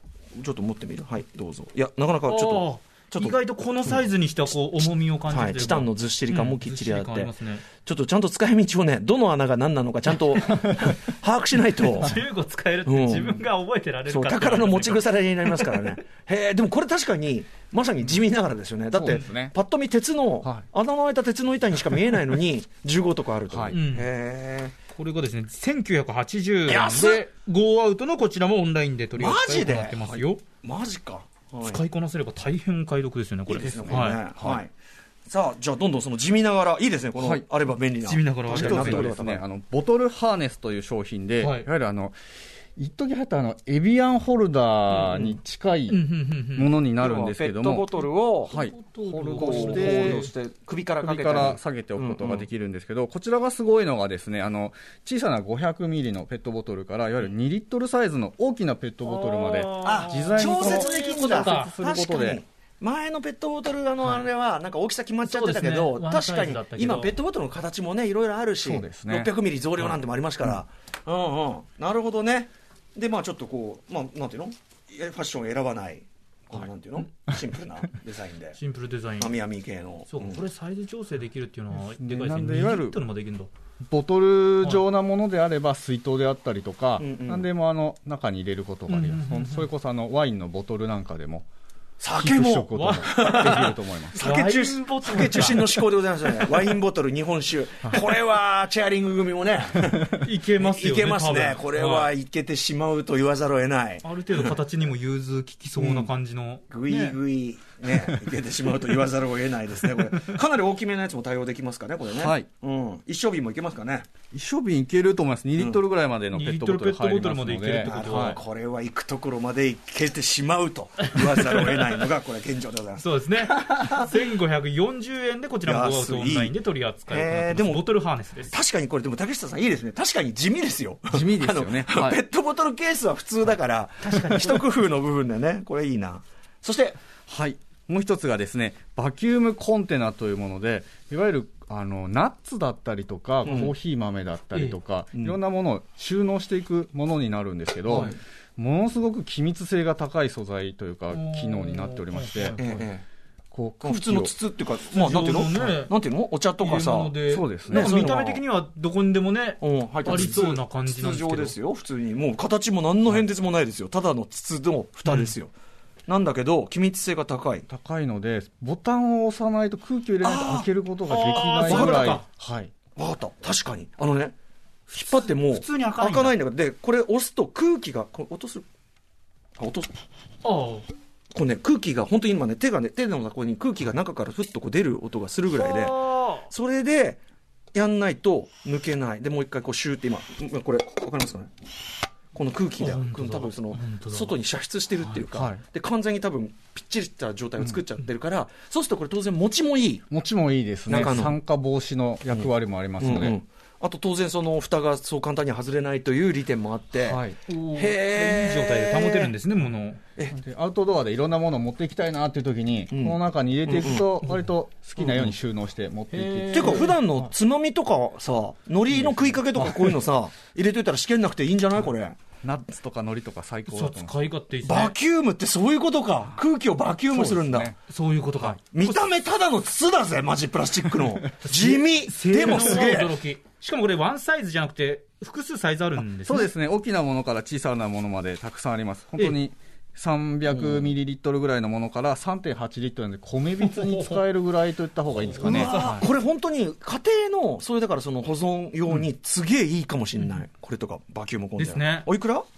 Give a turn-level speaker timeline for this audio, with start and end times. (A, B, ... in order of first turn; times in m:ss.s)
0:00.4-0:03.4 A
0:02.3-0:07.6 B
0:05.3-0:12.2 A
0:11.8-0:15.8 B
0:12.8-0:13.4 A
0:14.1-0:24.8 A
0:18.9-0:19.5 C
0:23.5-0:23.8 C
0:23.7-0:24.1 B
0:24.9-0:30.4 B
0:26.7-0:27.2 A
0:29.2-0:31.8 A
0:31.6-0:34.2 B
0:33.5-0:34.7 A
0:33.6-0:34.6 C
0:35.3-0:39.4 A
0:37.2-0:37.4 C
0:38.0-0:39.1 B
0:38.5-0:42.2 C
0:41.4-0:41.7 B
0:42.8-0:46.0 C
0:45.9-0:46.7 B
0:46.6-0:47.8 C
0:47.0-0:48.5 A
0:48.5-0:50.3 C
0:48.5-0:50.3 B
0:49.4-0:52.4 A
0:51.0-1:02.4 C
0:59.0-1:01.7 B
0:59.8-1:18.6 A
1:05.2-1:07.1 B
1:08.6-1:09.3 C
1:18.5-1:19.3 B
1:19.2-1:20.4 A
1:20.1-1:23.5 B
1:21.7-1:23.0 C
1:23.9-1:31.4 C
1:27.0-1:27.5 A
1:28.9-1:29.6 B
1:32.0-1:44.6 A
1:32.1-1:34.2 C
1:32.7-1:35.7 B
1:40.1-1:42.1 B
1:44.0-1:47.2 B
1:45.8-1:46.1 A
1:46.7-1:54.1 A
1:52.1-1:52.5 C
1:54.3-1:58.4 C
1:56.3-1:58.4 B
1:57.8-2:04.1 A
2:01.2-2:01.8 B
2:03.0-2:08.6 B
2:05.6-2:06.5 A
2:07.1-2:07.9 A
2:08.5-2:17.0 A
2:11.1-2:12.2 C
2:14.0-2:14.6 B
2:17.3-2:32.6 C
2:23.4-2:23.7 A
2:27.9-2:28.2 A
2:31.1-2:32.8 B
2:32.6-2:33.0 A
2:33.5-2:34.3 C
2:33.8-2:37.2 A
2:34.9-2:35.9 B
2:36.6-2:41.5 B
2:37.2-2:38.1 C
2:37.7-2:38.4 A
2:39.6-2:45.5 A
2:40.1-2:40.4 C
2:45.0-2:45.3 B
2:46.1-2:47.7 A
2:47.7-2:52.7 C
2:50.2-2:50.7 A
2:51.1-2:52.2 B
2:51.2-2:52.2 A
2:53.0-2:54.3 A
2:54.9-2:56.3 B
2:54.9-2:58.6 A
2:59.6-2:59.9 A
3:00.4-3:00.9 B
3:01.3-3:07.2 A
3:05.5-3:06.5 B
3:07.7-3:11.5 A
3:12.3-3:20.0 A
3:12.8-3:14.3 B
3:15.3-3:15.6 C
3:20.1-3:23.4 C
3:20.9-3:21.4 A
3:22.3-3:29.3 A
3:27.0-3:27.4 C
3:27.5-3:30.0 B
3:30.3-3:37.3 C
3:32.9-3:34.1 A
3:34.2-3:34.5 B
3:35.0-3:35.3 A
3:36.1-3:36.9 B
3:36.5-3:42.2 A
3:38.9-3:39.9 C
3:42.4-3:44.1 C
3:43.7-3:44.9 B
3:44.6-3:47.7 A
3:47.1-3:47.8 C
3:47.9-3:49.0 B
3:48.7-3:53.2 A
3:51.4-3:56.5 B
3:56.2-4:06.0 C
4:00.5-4:00.9 A
4:03.6-4:04.2 B
4:05.3-4:12.4 A
4:05.4-4:06.1 B
4:11.6-4:12.1 B